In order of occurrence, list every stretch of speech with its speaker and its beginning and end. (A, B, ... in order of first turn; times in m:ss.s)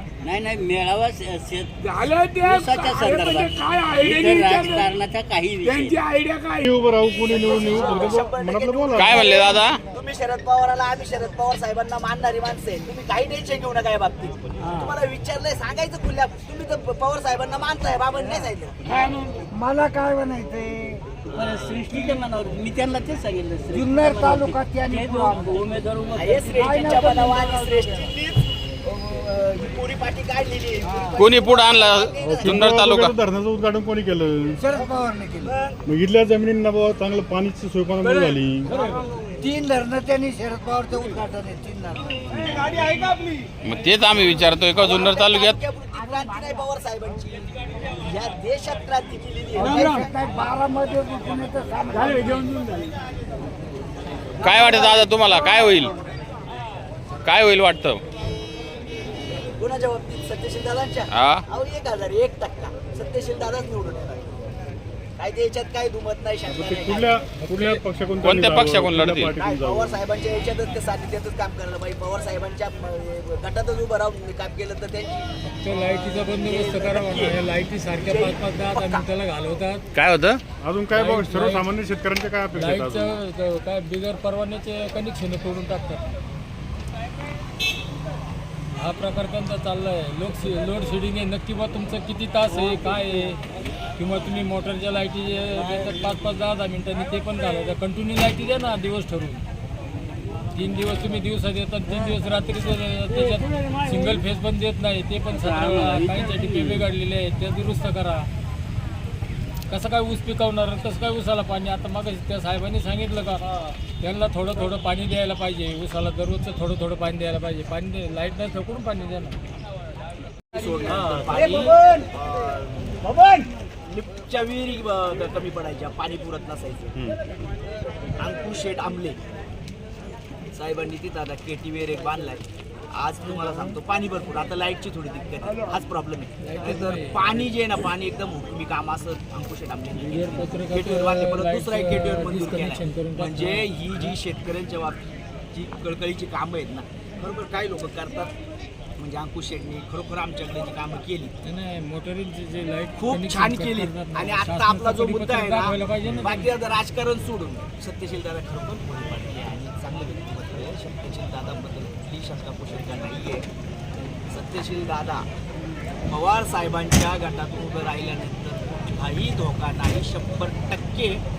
0:00.2-0:01.7 A
0:01.8-0:04.9 B
0:02.4-0:06.0 A
0:05.6-0:06.6 B
0:06.6-0:09.2 C
0:07.3-0:18.8 D
0:08.9-0:09.8 E
0:18.2-0:18.4 F
0:18.9-0:19.4 B
0:19.5-0:21.1 F
0:21.3-0:27.1 A
0:23.7-0:25.6 F
0:26.2-0:32.6 D
0:26.7-0:28.0 F
0:31.2-0:33.1 E
0:32.2-0:34.6 C
0:34.5-0:35.6 F
0:35.9-0:38.7 C
0:38.1-0:42.2 F
0:42.8-0:43.2 F
0:43.6-0:45.6 E
0:44.8-0:49.9 D
0:49.6-0:50.1 B
0:49.6-0:52.4 F
0:51.9-0:52.9 B
0:54.4-0:55.9 E
0:54.4-0:55.6 D
0:57.2-0:58.0 E
0:59.6-1:04.4 D
1:01.1-1:01.4 E
1:05.2-1:07.2 D
1:06.5-1:10.0 C
1:07.4-1:07.8 G
1:08.2-1:09.4 E
1:09.4-1:15.3 D
1:15.4-1:19.8 G
1:16.3-1:17.4 D
1:18.0-1:19.0 D
1:19.9-1:20.4 E
1:20.6-1:23.2 C
1:20.9-1:21.7 G
1:22.5-1:26.0 G
1:28.8-1:33.4 G
1:34.0-1:39.4 G
1:40.5-1:48.3 G
1:45.3-1:46.9 A
1:49.7-1:53.4 G
1:54.0-1:59.4 G
2:00.5-2:06.9 D
2:06.9-2:07.2 C
2:08.2-2:09.2 D
2:10.5-2:28.3 D
2:16.4-2:17.5 G
2:20.0-2:24.1 G
2:29.0-2:31.4 D
2:31.4-2:36.5 G
2:33.0-2:43.5 D
2:44.3-2:45.3 D
2:46.1-2:51.2 D